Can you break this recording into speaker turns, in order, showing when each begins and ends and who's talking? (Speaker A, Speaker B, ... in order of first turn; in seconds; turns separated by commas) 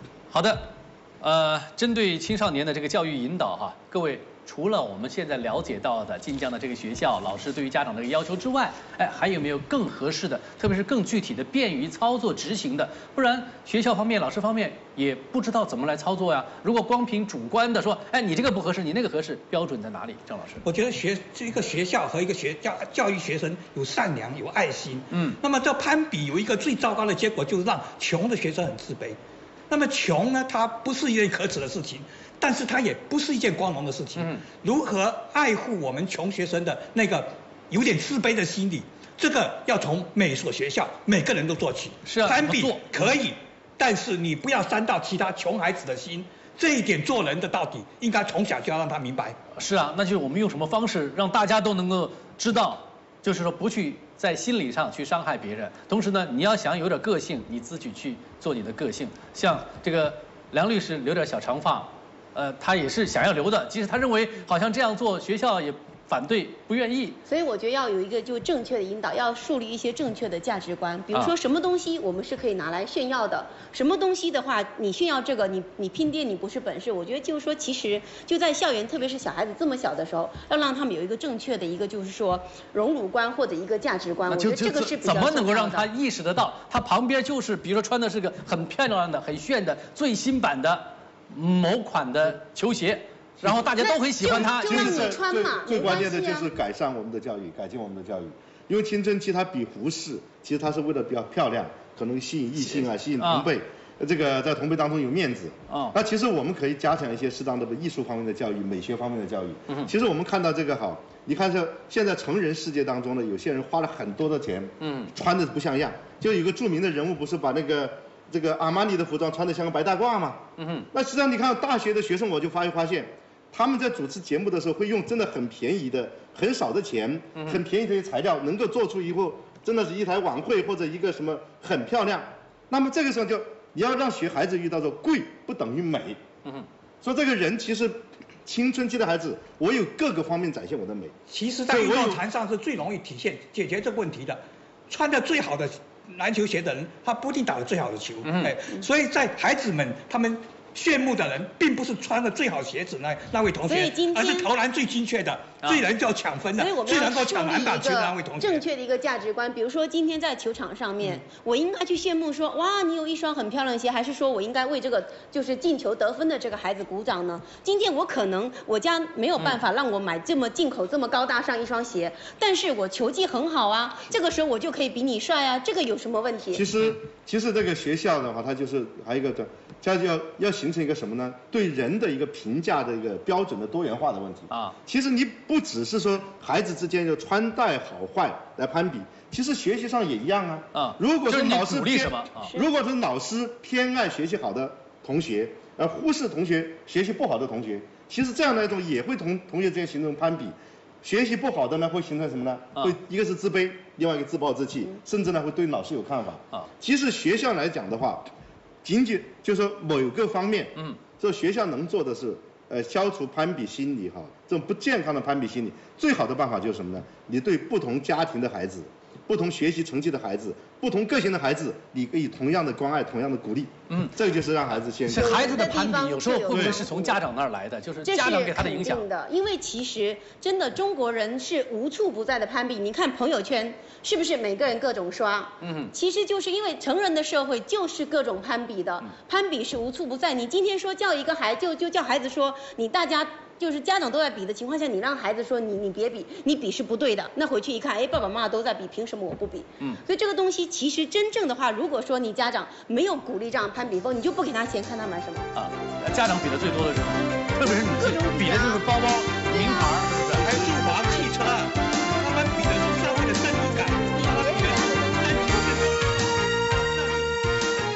Speaker A: 0.3-20.6, Speaker B: 20.6-29.2, Speaker A: 25.1-25.4, Speaker B: 29.7-49.4, Speaker A: 34.2-34.4, Speaker A: 42.0-42.9, Speaker A: 49.5-67.2, Speaker C: 67.3-85.9, Speaker A: 84.3-95.1, Speaker C: 93.7-96.5, Speaker D: 94.2-136.2, Speaker A: 103.2-103.5, Speaker A: 105.7-105.9, Speaker A: 114.8-115.1, Speaker A: 120.6-120.9, Speaker A: 127.3-127.6, Speaker D: 137.0-141.1, Speaker B: 141.3-158.6, Speaker D: 141.7-142.2, Speaker A: 148.2-148.5, Speaker C: 153.7-154.5, Speaker C: 156.6-176.6, Speaker D: 176.5-208.3, Speaker A: 184.5-184.7, Speaker A: 190.7-192.5, Speaker D: 208.8-225.7, Speaker A: 223.9-224.1, Speaker A: 225.1-229.0, Speaker C: 225.1-227.2, Speaker D: 226.5-226.8, Speaker C: 228.1-255.5, Speaker A: 235.6-235.9, Speaker A: 255.5-260.7, Speaker C: 257.9-258.8, Speaker B: 260.4-267.4, Speaker C: 264.1-265.7